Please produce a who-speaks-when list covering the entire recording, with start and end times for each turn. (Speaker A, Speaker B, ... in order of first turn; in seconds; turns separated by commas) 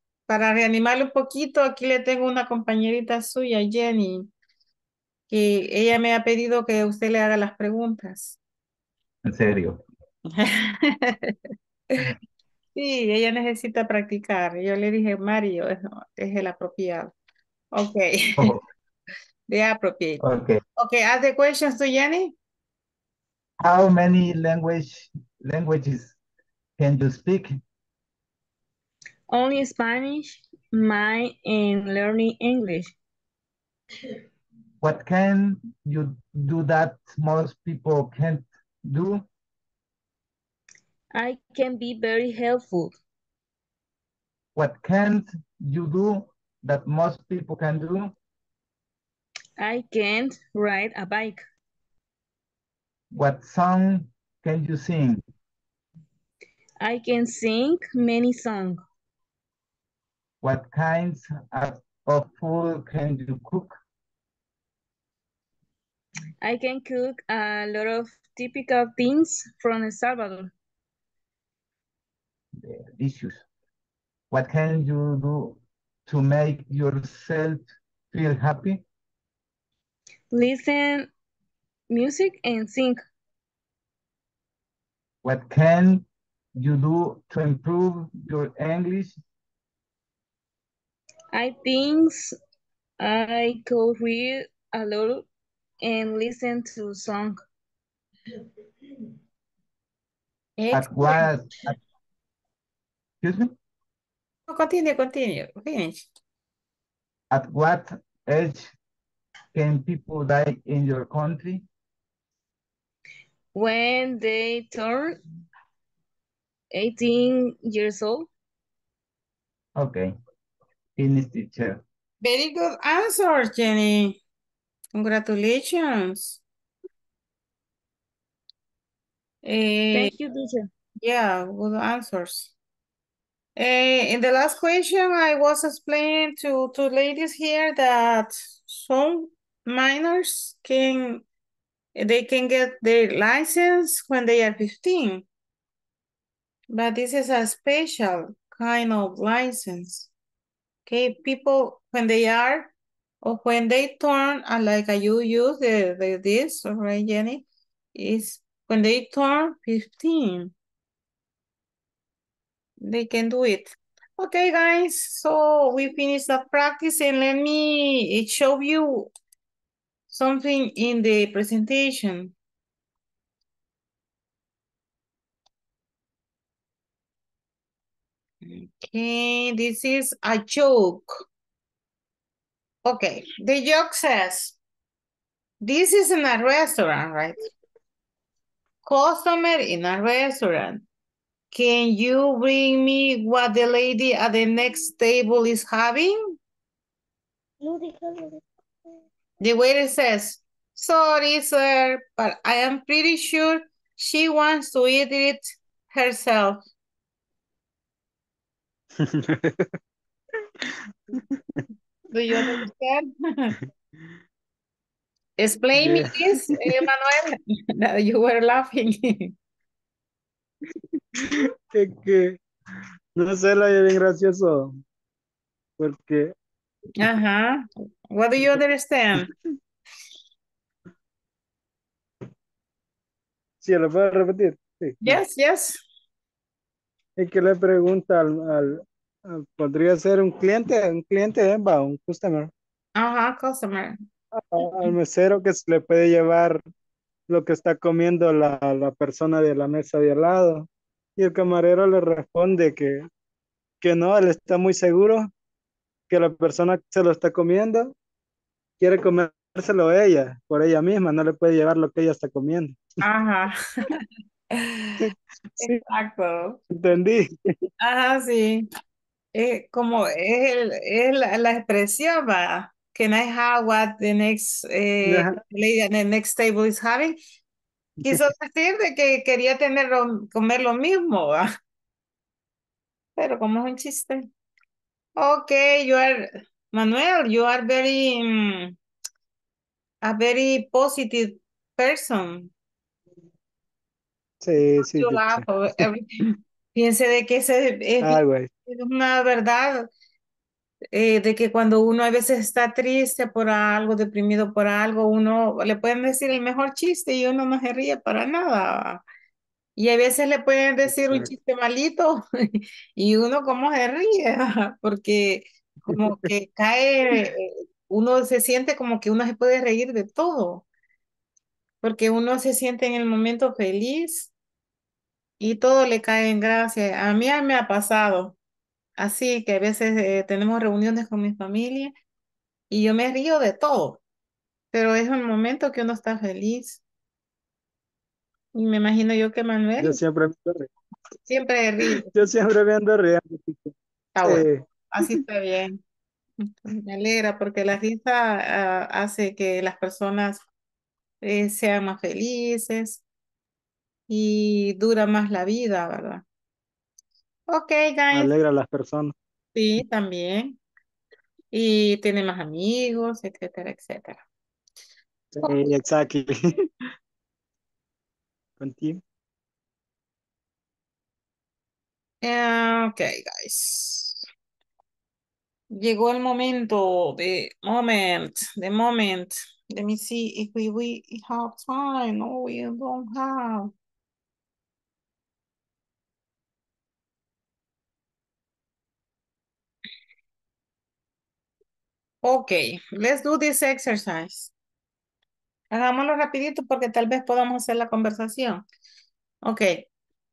Speaker A: 0.3-4.3, Speaker A: 5.3-8.4, Speaker B: 9.2-9.8, Speaker A: 10.3-11.3, Speaker A: 12.8-17.1, Speaker A: 17.7-18.5, Speaker A: 19.5-20.2, Speaker B: 20.2-20.6, Speaker A: 20.8-22.3, Speaker B: 23.6-26.1, Speaker B: 26.8-27.6, Speaker C: 29.3-32.9, Speaker B: 34.8-39.2, Speaker C: 41.1-43.0, Speaker B: 44.5-48.1, Speaker C: 49.6-51.4, Speaker B: 53.1-55.2, Speaker C: 56.8-58.8, Speaker B: 60.4-63.8, Speaker C: 66.4-70.5, Speaker B: 72.6-73.4, Speaker B: 74.3-78.8, Speaker C: 80.3-81.1, Speaker C: 81.9-83.0, Speaker B: 85.2-86.0, Speaker B: 86.5-89.2, Speaker C: 91.3-92.3, Speaker C: 93.0-95.2, Speaker C: 95.8-97.4, Speaker A: 100.6-101.3, Speaker B: 100.7-101.8, Speaker B: 103.2-103.5, Speaker A: 104.5-106.1, Speaker B: 107.3-108.7, Speaker B: 109.5-111.6, Speaker C: 113.5-115.2, Speaker C: 116.7-118.3, Speaker B: 119.8-120.1, Speaker B: 121.0-121.8, Speaker A: 122.2-124.2, Speaker A: 124.9-126.4, Speaker A: 129.4-130.1, Speaker C: 129.9-130.7, Speaker A: 131.0-132.5, Speaker A: 133.6-141.2, Speaker A: 141.9-145.2, Speaker A: 146.7-150.1, Speaker A: 150.9-152.7, Speaker A: 153.2-157.4, Speaker A: 157.9-160.5, Speaker A: 162.8-169.1, Speaker A: 170.1-172.3, Speaker A: 178.4-181.3, Speaker A: 182.8-184.6, Speaker A: 185.6-187.5, Speaker A: 188.8-190.8, Speaker A: 191.5-196.4, Speaker A: 199.4-206.6, Speaker D: 209.0-209.7, Speaker A: 212.1-213.5, Speaker A: 215.4-219.3, Speaker D: 215.8-216.7, Speaker D: 221.2-222.4, Speaker D: 223.2-224.7, Speaker D: 225.8-226.3, Speaker A: 227.0-229.3, Speaker D: 233.6-235.2, Speaker A: 235.0-235.8, Speaker D: 237.2-242.5, Speaker A: 242.9-244.0, Speaker D: 244.4-246.6, Speaker D: 247.3-250.7, Speaker D: 251.2-253.1, Speaker D: 253.8-255.3, Speaker D: 256.1-257.9, Speaker D: 258.8-262.8, Speaker A: 263.0-264.0, Speaker D: 265.0-265.8, Speaker A: 265.6-266.6, Speaker D: 266.7-267.3, Speaker A: 267.8-268.7, Speaker A: 269.3-277.2, Speaker D: 275.0-275.4, Speaker A: 278.0-281.5, Speaker A: 283.2-284.3, Speaker A: 285.2-288.8, Speaker A: 290.0-292.5, Speaker D: 294.4-295.8, Speaker A: 294.9-299.9, Speaker D: 298.0-298.5, Speaker A: 300.9-309.0, Speaker A: 309.8-320.6, Speaker D: 310.9-311.3, Speaker D: 315.9-316.3, Speaker A: 321.8-324.3, Speaker A: 325.4-328.4, Speaker A: 329.0-331.9, Speaker A: 332.7-334.0, Speaker A: 334.7-336.8, Speaker A: 338.5-340.0, Speaker D: 339.8-340.7, Speaker A: 341.3-342.1, Speaker D: 342.0-343.7, Speaker A: 344.1-345.8, Speaker D: 344.2-344.6, Speaker A: 346.4-350.4, Speaker A: 351.2-353.0, Speaker A: 354.1-356.2, Speaker A: 357.5-358.3, Speaker D: 358.1-359.1, Speaker A: 359.5-360.6, Speaker A: 361.5-364.2, Speaker D: 365.3-366.3, Speaker D: 368.6-369.0, Speaker A: 372.2-374.2, Speaker A: 375.7-383.7, Speaker A: 392.2-394.5, Speaker A: 395.7-398.6, Speaker A: 399.4-399.9